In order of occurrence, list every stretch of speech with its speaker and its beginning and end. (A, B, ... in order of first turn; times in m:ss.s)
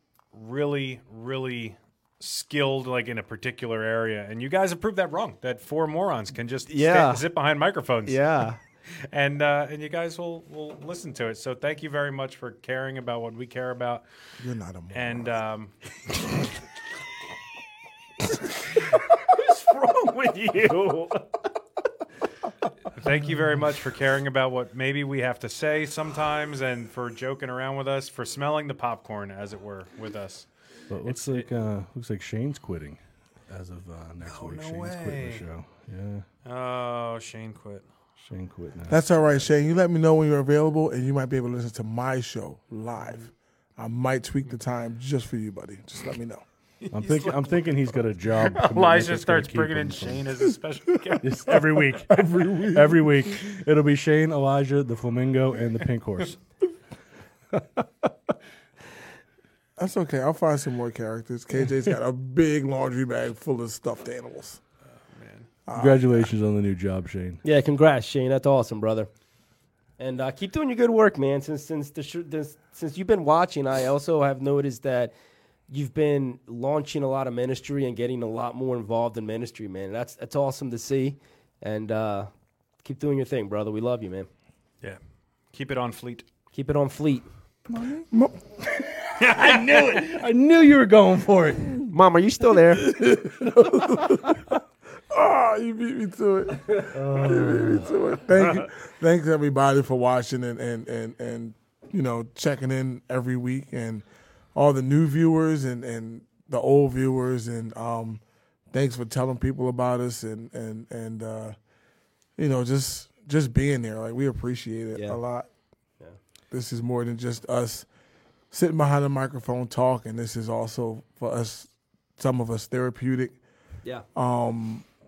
0:00.3-0:08.3 A
0:06.7-0:07.2 B
0:08.0-0:08.6 B
0:09.1-0:14.0 A
0:14.4-0:15.4 C
0:14.9-0:15.7 A
0:19.7-0:21.2 B
0:22.9-0:30.5 A
0:30.9-0:36.2 D
0:31.0-0:31.5 A
0:34.2-0:35.4 A
0:36.4-0:37.8 A
0:38.2-0:39.0 D
0:38.9-0:46.4 C
0:46.8-0:47.6 A
0:46.9-0:50.4 D
0:48.3-0:51.8 A
0:51.2-0:56.4 D
0:52.0-0:53.4 C
0:59.8-1:04.6 C
1:05.0-1:05.5 A
1:05.7-1:06.3 C
1:05.7-1:07.4 D
1:07.4-1:09.1 B
1:10.0-1:15.1 B
1:15.7-1:22.3 B
1:22.8-1:24.3 B
1:25.5-1:26.3 A
1:26.5-1:27.2 B
1:27.7-1:28.4 C
1:28.7-1:31.9 D
1:29.2-1:30.2 A
1:31.8-1:32.9 B
1:32.7-1:34.5 D
1:33.1-1:34.2 C
1:35.1-1:51.6 C
1:36.9-1:37.9 D
1:52.4-1:55.5 C
1:54.9-1:55.2 B
1:56.5-1:57.9 C
1:58.5-2:03.4 C
2:04.1-2:04.8 C